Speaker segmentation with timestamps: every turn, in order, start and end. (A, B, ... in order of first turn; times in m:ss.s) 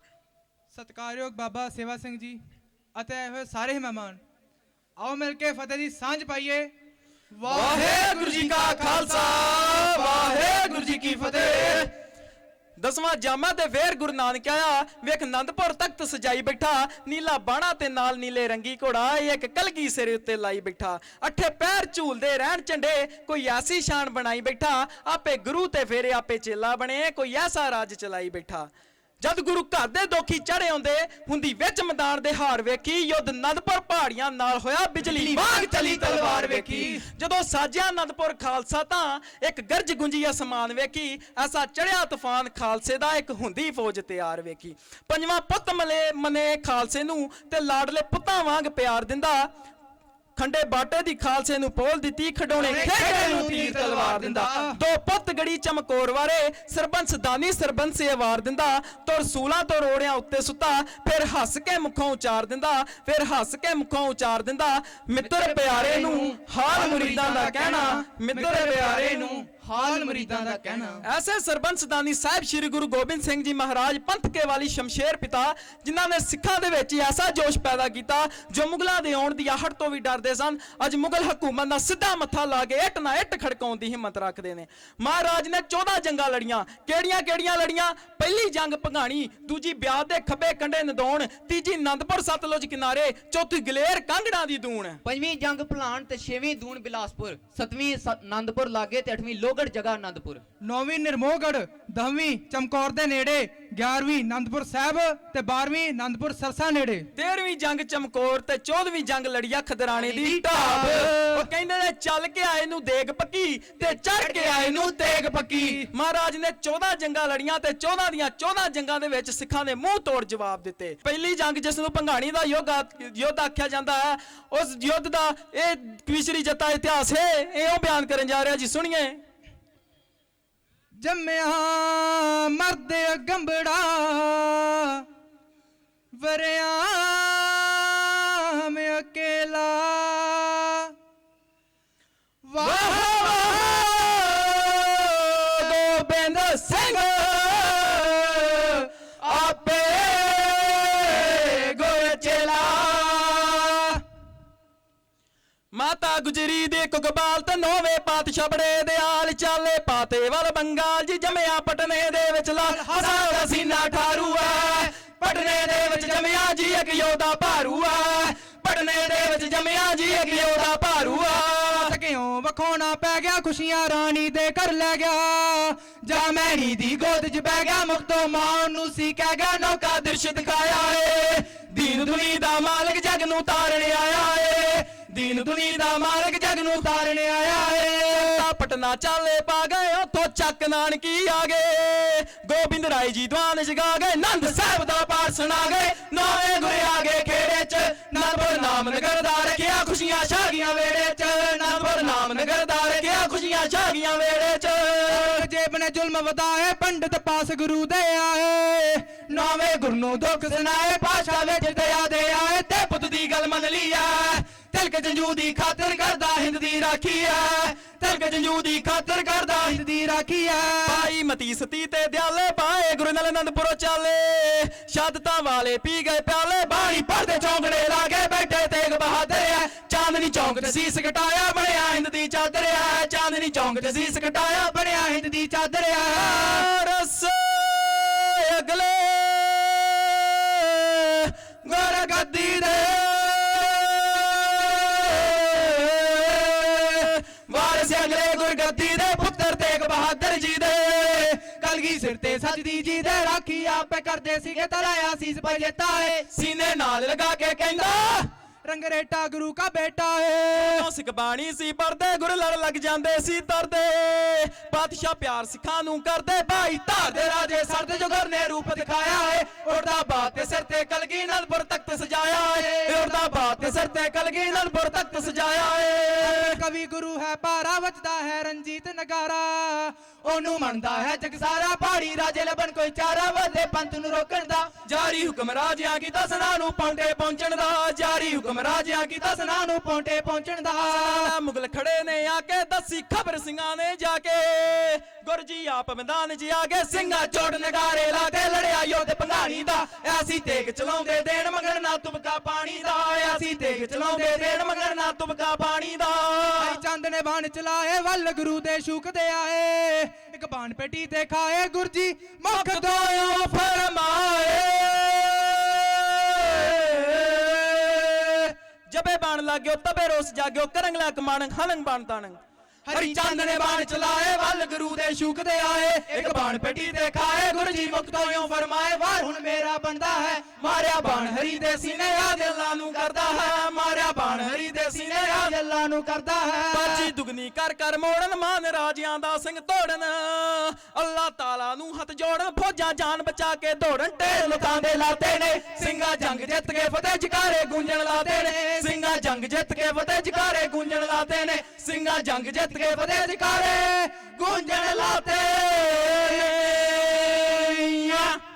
0:00.7-0:02.4 A
0:03.0-0:04.2 A
0:05.0-0:06.7 A
0:07.4-0:10.0 A
0:07.5-0:11.9 B
0:12.8-0:28.7 B
0:29.2-0:49.5 B
0:35.0-0:37.1 A
0:50.4-1:09.4 B
0:52.6-0:54.8 A
1:06.0-1:11.0 A
1:09.6-1:11.0 C
1:11.0-1:35.0 B
1:35.0-1:40.4 C
1:40.6-1:47.1 A
1:47.1-2:09.2 B
1:49.9-1:50.9 C
1:54.2-1:55.7 C
2:11.0-2:15.1 A
2:16.2-2:20.9 A
2:22.5-2:23.5 A
2:22.6-2:34.0 B
2:35.7-2:52.0 B
2:42.6-2:43.4 A
2:51.8-2:59.6 A
2:59.6-3:06.9 B
3:06.8-3:08.4 A
3:08.0-3:25.5 B
3:18.2-3:18.8 A
3:25.1-3:32.3 A
3:31.1-3:39.8 B
3:39.6-3:41.1 A
3:40.8-3:54.8 B
3:54.8-3:56.7 A
3:56.1-4:11.5 B
4:11.4-4:16.2 A
4:16.3-4:18.3 B
4:18.6-4:20.9 A
4:20.6-4:36.6 B
4:36.2-4:42.6 A
4:42.3-4:44.2 C
4:43.6-4:44.6 A
4:44.8-4:49.6 B
4:49.7-4:51.3 A
4:50.8-5:06.8 B
5:06.6-5:13.0 A
5:12.5-5:22.4 B
5:22.9-5:23.8 A
5:22.9-5:29.1 B
5:26.1-5:26.7 A
5:29.6-5:30.5 A
5:31.1-5:31.9 A
5:32.1-5:35.6 B
5:36.3-5:37.1 A
5:36.7-5:58.4 B
5:48.4-5:48.8 A